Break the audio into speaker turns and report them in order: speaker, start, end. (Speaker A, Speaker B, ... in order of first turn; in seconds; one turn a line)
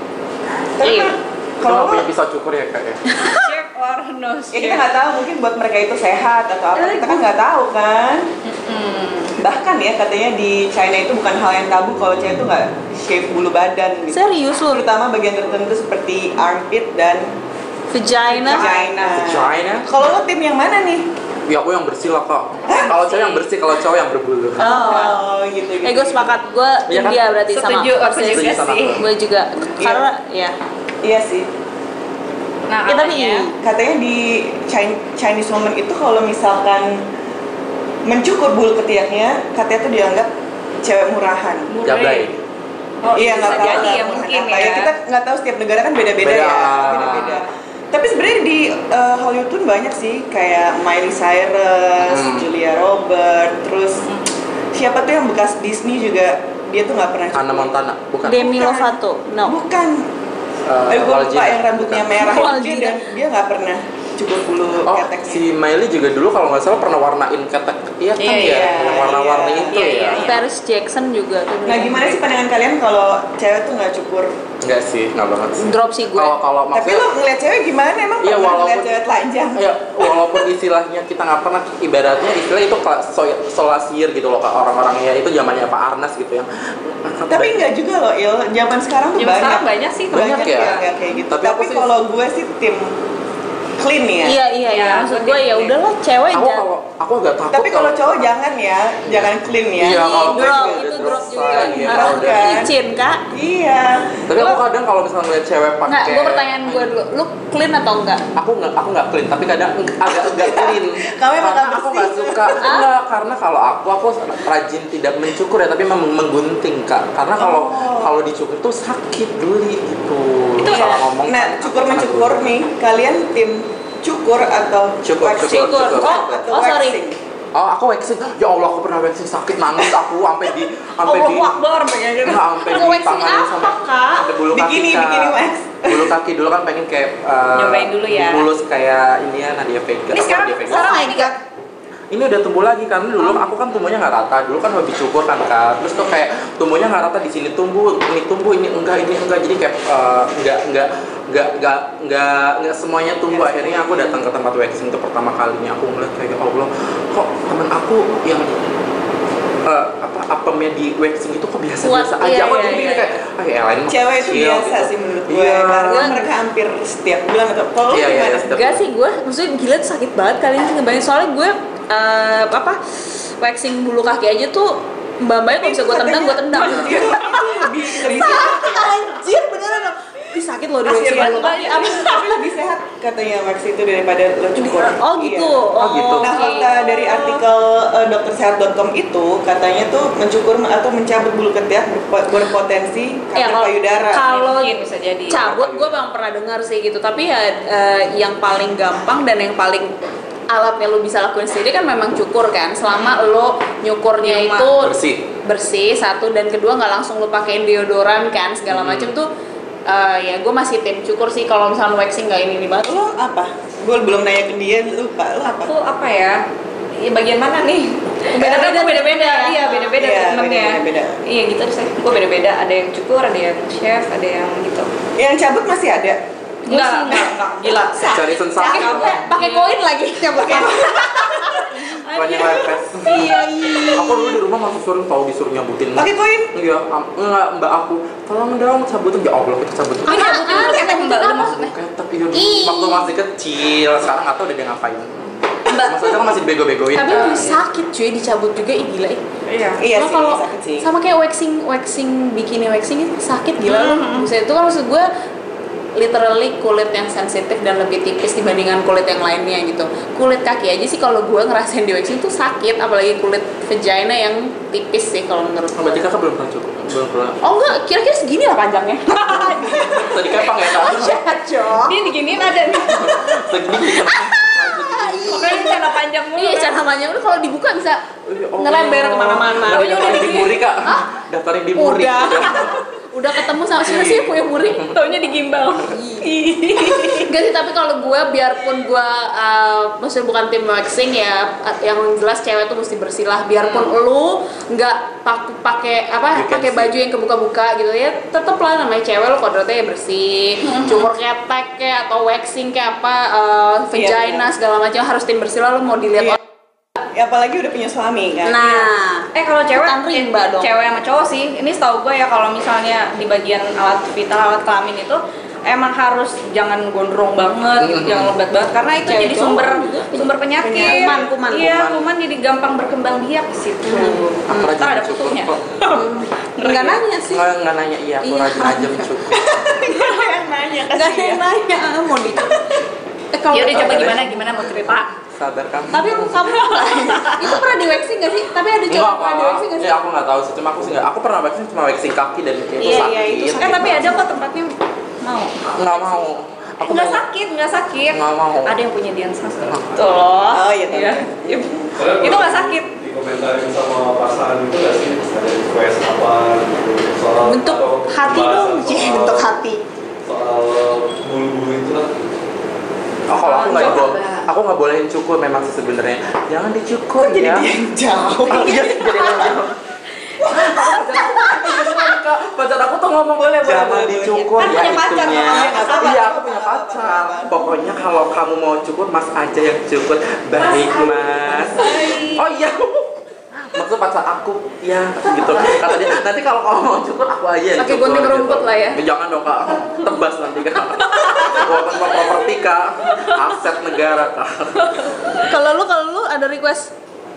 Speaker A: 0.8-2.1
Speaker B: 0.8-1.1
Speaker C: 1.6-3.0
Speaker B: 3.1-3.5
Speaker D: 3.3-4.9
Speaker A: 4.5-8.3
Speaker B: 6.8-7.3
Speaker D: 8.4-9.3
Speaker A: 9.4-17.3
Speaker B: 14.1-14.9
Speaker B: 17.9-18.7
Speaker D: 18.3-19.1
Speaker A: 18.4-21.1
Speaker C: 19.1-19.9
Speaker C: 21.4-24.6
Speaker D: 22.7-23.5
Speaker A: 24.6-26.3
Speaker B: 24.6-25.1
Speaker D: 24.6-25.2
Speaker B: 25.8-30.5
Speaker C: 26.9-27.2
Speaker D: 27.5-29.0
Speaker C: 28.3-29.1
Speaker A: 29.8-30.1
Speaker A: 31.0-31.5
Speaker D: 32.7-33.5
Speaker B: 32.9-33.5
Speaker A: 33.6-36.9
Speaker A: 38.0-40.3
Speaker A: 40.8-41.7
Speaker D: 41.7-42.3
Speaker C: 41.8-42.4
Speaker D: 43.0-44.9
Speaker A: 43.1-54.0
Speaker C: 43.2-44.0
Speaker C: 46.2-47.4
Speaker C: 52.0-52.5
Speaker D: 54.0-54.3
Speaker A: 54.7-60.1
Speaker C: 57.3-58.5
Speaker B: 58.2-59.6
Speaker C: 60.6-62.1
Speaker A: 60.9-65.4
Speaker B: 62.2-63.0
Speaker C: 64.8-70.2
Speaker D: 68.2-68.9
Speaker A: 68.4-69.8
Speaker D: 69.7-70.4
Speaker B: 70.2-72.3
Speaker A: 71.6-74.3
Speaker C: 74.6-77.1
Speaker B: 75.6-76.3
Speaker A: 76.7-80.4
Speaker C: 78.2-79.0
Speaker C: 79.5-87.7
Speaker A: 87.3-92.8
Speaker D: 89.1-90.9
Speaker C: 90.1-90.8
Speaker C: 91.3-91.9
Speaker A: 93.8-94.4
Speaker B: 94.2-96.7
Speaker D: 94.7-95.8
Speaker C: 96.3-98.3
Speaker A: 97.5-102.7
Speaker C: 99.0-102.4
Speaker B: 99.8-103.2
Speaker A: 103.3-104.2
Speaker C: 104.3-106.9
Speaker B: 105.9-108.2
Speaker C: 108.3-122.5
Speaker A: 110.0-112.6
Speaker B: 112.6-112.9
Speaker A: 117.3-118.1
Speaker D: 120.6-121.0
Speaker A: 120.7-127.2
Speaker C: 125.0-126.5
Speaker B: 125.4-127.0
Speaker C: 127.5-131.6
Speaker D: 131.0-132.5
Speaker C: 132.2-141.0
Speaker B: 132.6-134.3
Speaker A: 134.5-136.1
Speaker D: 137.5-138.5
Speaker D: 140.1-141.3
Speaker B: 140.7-141.4
Speaker C: 142.1-158.6
Speaker A: 153.3-154.2
Speaker C: 159.6-166.1
Speaker B: 161.8-163.1
Speaker A: 163.9-168.5
Speaker B: 165.9-166.3
Speaker C: 167.9-168.8
Speaker B: 168.5-182.2
Speaker A: 175.6-179.0
Speaker D: 176.6-178.3
Speaker A: 180.8-185.6
Speaker D: 181.0-182.5
Speaker B: 184.6-187.4
Speaker C: 185.8-186.3
Speaker A: 186.2-194.2
Speaker B: 193.3-194.8
Speaker D: 194.2-195.5
Speaker B: 195.3-199.9
Speaker C: 195.3-196.0
Speaker B: 200.5-209.3
Speaker D: 202.9-203.2
Speaker D: 204.2-204.7
Speaker C: 204.8-205.2
Speaker C: 208.7-209.1
Speaker B: 209.9-213.1
Speaker A: 212.8-215.7
Speaker D: 215.5-216.4
Speaker D: 217.0-224.9
Speaker B: 218.3-219.9
Speaker A: 220.0-221.2
Speaker A: 225.2-226.2
Speaker B: 226.7-232.1
Speaker D: 226.7-229.8
Speaker C: 228.1-229.3
Speaker A: 230.3-231.6
Speaker D: 231.8-233.2
Speaker C: 232.1-245.3
Speaker B: 233.0-234.4
Speaker A: 235.9-236.5
Speaker B: 240.0-241.5
Speaker D: 240.1-241.7
Speaker B: 242.3-243.1
Speaker B: 245.7-246.3
Speaker C: 245.8-247.6
Speaker B: 246.9-249.2
Speaker D: 249.5-249.8
Speaker A: 249.8-250.9
Speaker B: 249.9-255.1
Speaker D: 253.6-254.3
Speaker B: 256.0-266.1
Speaker C: 265.7-267.7
Speaker B: 267.4-272.0
Speaker D: 269.1-269.7
Speaker C: 269.6-271.3
Speaker D: 271.8-273.1
Speaker C: 272.8-275.6
Speaker B: 273.9-275.8
Speaker D: 275.2-276.9
Speaker B: 276.4-278.0
Speaker C: 278.2-282.8
Speaker B: 278.6-281.0
Speaker D: 279.6-280.6
Speaker B: 281.7-284.9
Speaker C: 283.8-284.9
Speaker D: 284.9-287.3
Speaker B: 285.8-286.3
Speaker B: 287.1-306.4
Speaker D: 293.6-293.9
Speaker C: 296.3-296.9
Speaker D: 300.6-301.1
Speaker A: 303.9-304.5
Speaker A: 307.1-308.8
Speaker B: 308.4-310.7
Speaker D: 309.3-327.0
Speaker C: 317.8-318.4
Speaker B: 319.0-321.7
Speaker C: 320.8-322.1
Speaker A: 320.9-321.2
Speaker B: 323.9-324.7
Speaker C: 324.5-325.6
Speaker B: 325.9-327.4
Speaker C: 327.3-329.6
Speaker B: 328.2-329.1
Speaker A: 329.3-331.5
Speaker B: 329.9-330.2
Speaker B: 330.9-332.7
Speaker B: 333.3-334.6
Speaker D: 333.5-335.1
Speaker C: 333.7-336.4
Speaker B: 335.9-340.0
Speaker D: 336.4-337.5
Speaker C: 338.9-344.2
Speaker B: 342.8-344.1
Speaker D: 342.9-349.8
Speaker C: 345.8-347.2
Speaker C: 348.1-348.8
Speaker B: 349.9-350.7
Speaker A: 350.5-351.9
Speaker D: 350.9-352.9
Speaker E: 351.9-362.2
Speaker B: 357.4-359.8
Speaker C: 363.3-367.7
Speaker D: 363.4-364.5
Speaker A: 367.2-369.5
Speaker C: 368.5-369.7
Speaker C: 370.4-383.1
Speaker A: 373.4-378.1
Speaker D: 374.6-376.1
Speaker D: 380.6-382.4
Speaker C: 383.7-395.1
Speaker B: 387.8-389.0
Speaker D: 391.0-392.5
Speaker D: 393.0-393.4
Speaker D: 394.8-395.4
Speaker B: 395.4-396.9